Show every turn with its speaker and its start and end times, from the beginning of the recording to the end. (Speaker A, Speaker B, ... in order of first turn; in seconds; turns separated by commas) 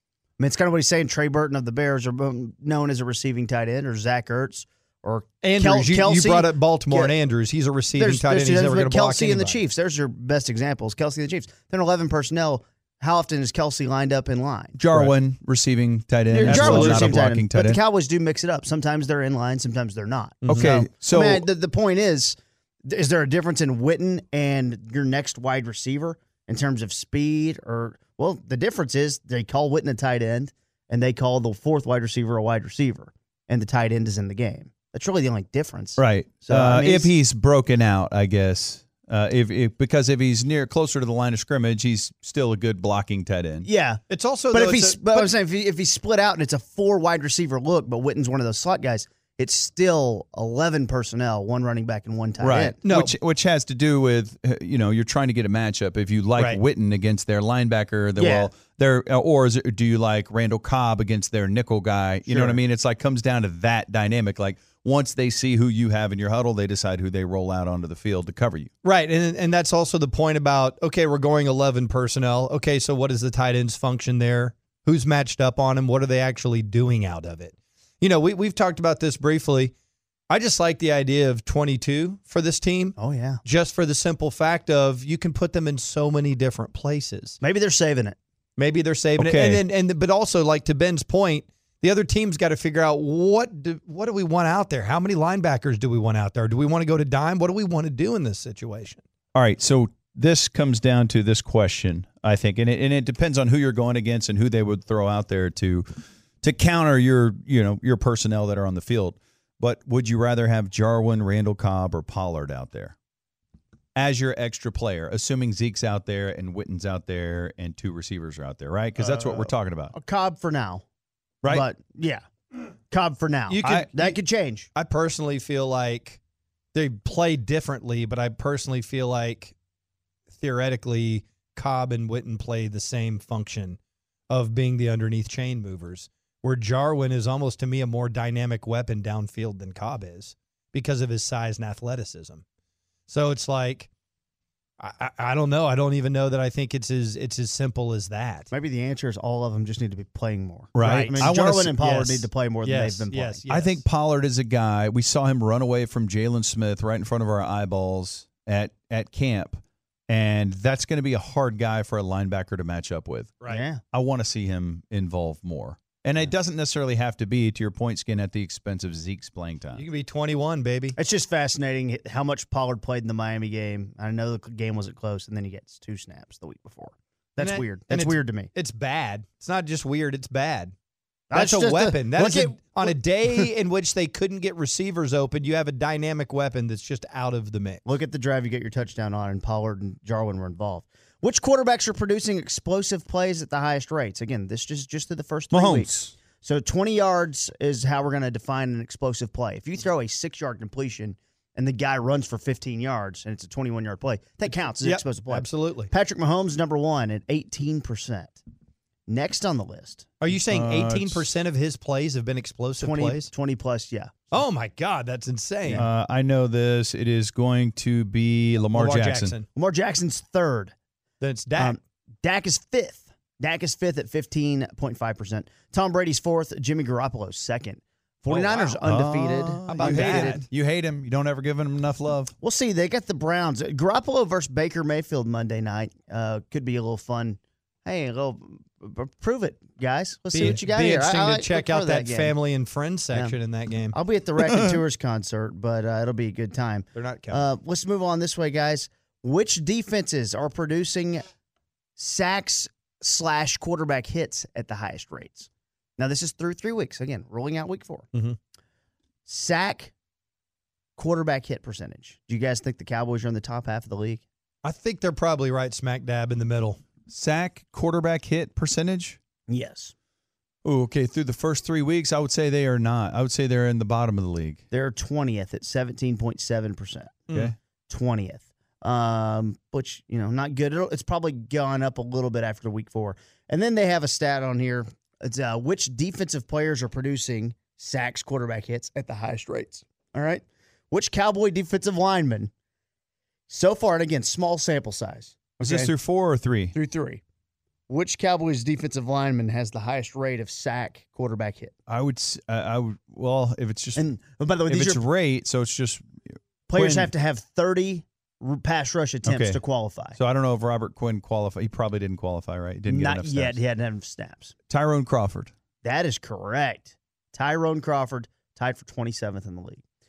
Speaker A: 0.4-7.1, Speaker B: 5.4-9.6, Speaker A: 7.9-14.8, Speaker C: 14.8-17.8, Speaker A: 16.3-37.1, Speaker B: 16.4-17.1, Speaker B: 20.4-20.7, Speaker C: 20.5-21.4, Speaker C: 36.0-43.7, Speaker A: 43.6-52.8, Speaker B: 44.1-45.3, Speaker C: 52.4-68.7, Speaker B: 52.8-53.1, Speaker A: 58.2-58.5, Speaker A: 62.3-62.6, Speaker B: 68.8-79.7, Speaker B: 80.3-87.4, Speaker A: 83.0-83.4, Speaker A: 87.4-88.2, Speaker B: 88.6-99.0, Speaker C: 89.2-89.6, Speaker C: 99.3-105.9, Speaker C: 106.4-112.9, Speaker C: 114.0-119.9, Speaker A: 119.0-120.8, Speaker A: 121.5-122.2, Speaker A: 122.9-124.7, Speaker B: 123.5-124.2, Speaker B: 124.7-126.2, Speaker B: 126.7-129.5, Speaker B: 130.3-133.8, Speaker B: 134.3-142.4, Speaker B: 143.1-143.9, Speaker B: 144.8-148.5, Speaker A: 148.5-153.4, Speaker C: 150.7-151.8, Speaker B: 150.8-153.8, Speaker C: 153.5-163.4, Speaker A: 163.5-163.8, Speaker C: 163.9-169.8, Speaker B: 169.8-170.9, Speaker A: 171.0-178.5, Speaker B: 177.4-180.7, Speaker A: 181.3-183.4, Speaker B: 181.3-187.8, Speaker A: 187.8-208.4, Speaker C: 195.5-196.2, Speaker B: 204.8-205.9, Speaker A: 209.1-210.1, Speaker B: 210.2-213.3, Speaker C: 210.3-211.3, Speaker A: 212.8-214.3, Speaker B: 214.3-215.8, Speaker C: 215.7-219.3, Speaker B: 218.7-219.4, Speaker A: 219.5-220.7, Speaker B: 221.2-221.8, Speaker A: 221.6-230.4, Speaker B: 228.3-228.8, Speaker C: 228.8-232.3, Speaker B: 229.7-230.4, Speaker A: 232.4-242.3, Speaker B: 240.3-243.9, Speaker A: 243.9-251.3, Speaker B: 246.9-247.4, Speaker A: 252.0-258.1, Speaker A: 259.2-259.9, Speaker A: 261.0-264.2, Speaker B: 264.6-266.8, Speaker C: 267.1-269.2, Speaker A: 269.5-269.9, Speaker C: 270.6-274.6, Speaker A: 274.7-277.3, Speaker B: 277.3-277.5, Speaker A: 277.9-292.5, Speaker A: 293.5-295.9, Speaker C: 295.6-296.7, Speaker A: 296.7-297.2, Speaker A: 297.9-301.7, Speaker C: 301.9-304.1, Speaker A: 304.0-305.0, Speaker C: 304.7-306.1, Speaker A: 306.7-310.2, Speaker C: 306.7-307.1, Speaker C: 309.2-309.6, Speaker C: 310.1-313.6, Speaker A: 312.9-314.5, Speaker C: 314.7-315.5, Speaker A: 315.8-319.8